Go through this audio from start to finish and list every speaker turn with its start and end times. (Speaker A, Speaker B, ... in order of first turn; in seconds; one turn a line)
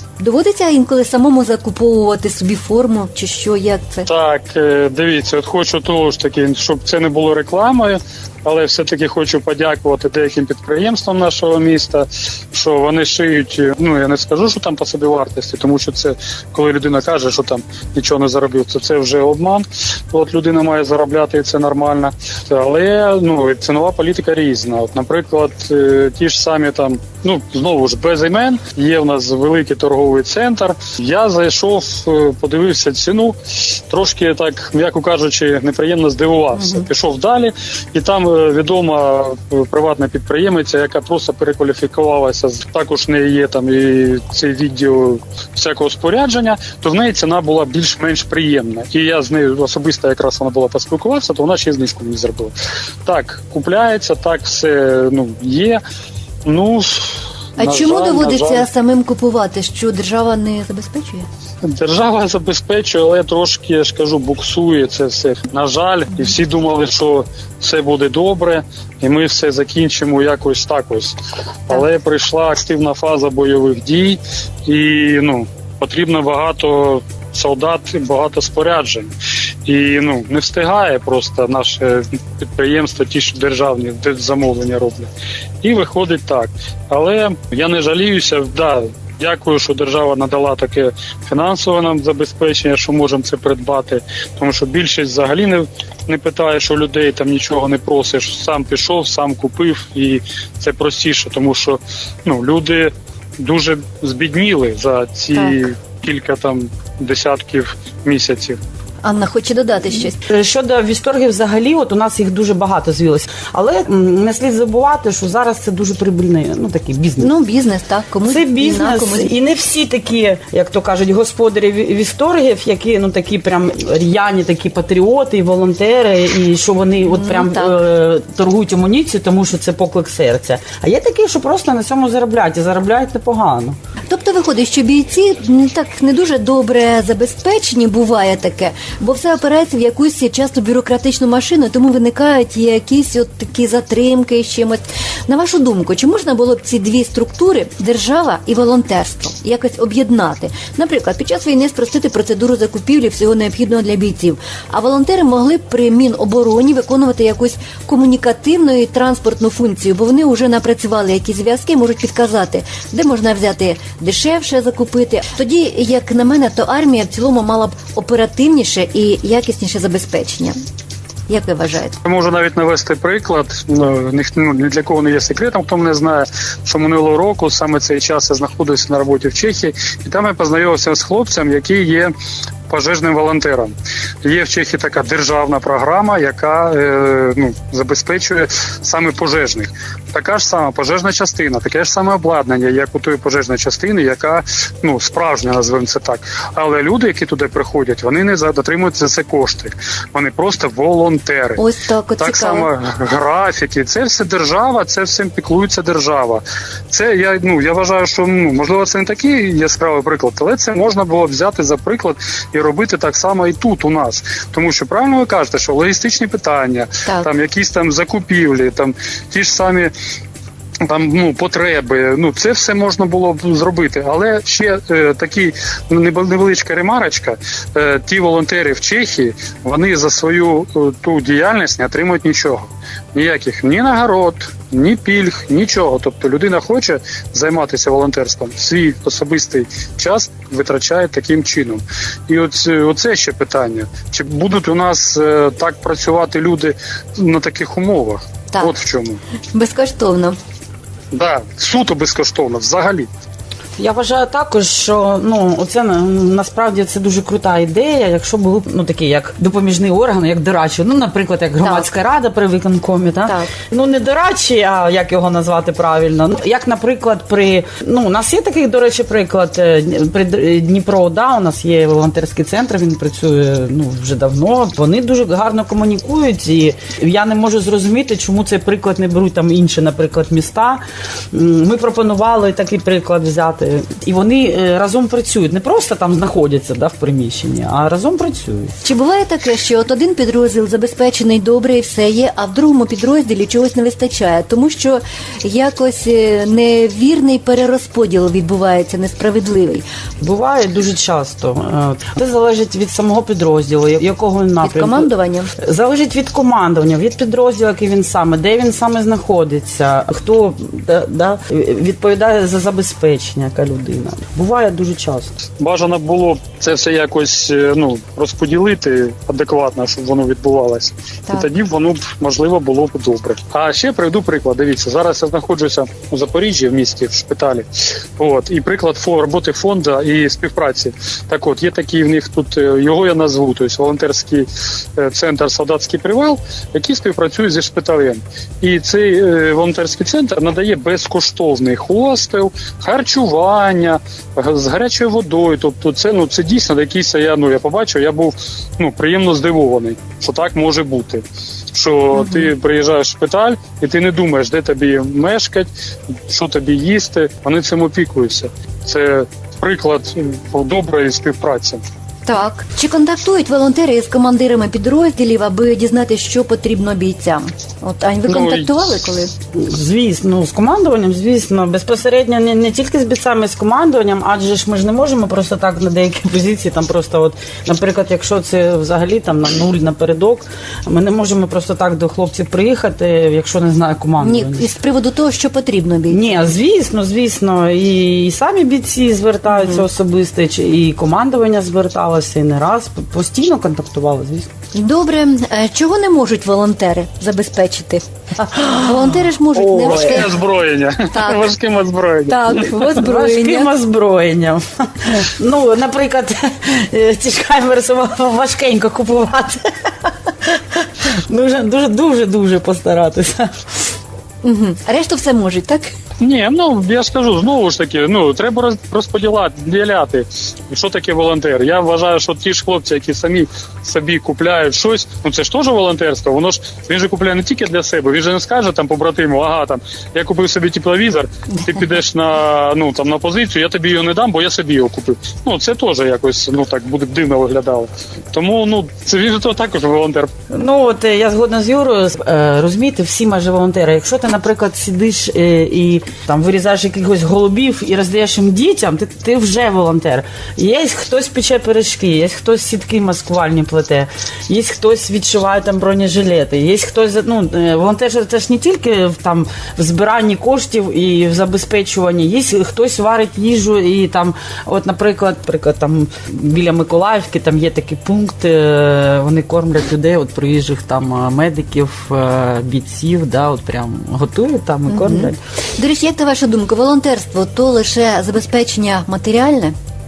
Speaker A: 0.2-4.1
Speaker B: 4.0-55.8
Speaker A: 36.5-36.8
Speaker B: 56.5-58.7
Speaker A: 57.6-61.3
Speaker B: 61.6-71.2
Speaker B: 71.7-79.1
Speaker B: 79.7-85.1
Speaker B: 85.6-108.6
Speaker A: 105.3-105.6
Speaker A: 109.0-110.2
Speaker C: 110.3-117.3
Speaker A: 117.2-119.3
Speaker C: 118.3-133.8
Speaker A: 127.1-127.7
Speaker A: 134.1-170.6
Speaker A: 171.3-172.0
Speaker B: 172.0-182.1
Speaker B: 182.7-201.6
Speaker A: 201.6-202.7
Speaker B: 202.2-219.9
Speaker B: 220.8-249.2
Speaker A: 249.5-250.4
Speaker B: 251.1-253.1
Speaker C: 253.8-280.8
Speaker A: 263.3-263.5
Speaker C: 281.3-288.7
Speaker A: 288.8-299.8
Speaker C: 300.2-315.3
Speaker A: 304.6-305.5
Speaker B: 315.6-327.6
Speaker B: 328.2-355.7
Speaker A: 352.1-352.5
Speaker B: 356.3-361.8
Speaker A: 362.2-369.3
Speaker B: 368.3-368.9
Speaker C: 369.5-384.6
Speaker A: 384.2-386.2
Speaker C: 386.1-394.5
Speaker A: 389.5-389.8
Speaker A: 394.7-398.0
Speaker C: 398.4-400.2
Speaker A: 398.6-400.4
Speaker B: 399.8-402.7
Speaker A: 401.1-401.5
Speaker A: 402.3-403.7
Speaker C: 402.9-409.7
Speaker C: 410.7-413.6
Speaker A: 414.4-415.9
Speaker B: 416.2-440.3
Speaker C: 440.5-475.4
Speaker A: 474.9-479.7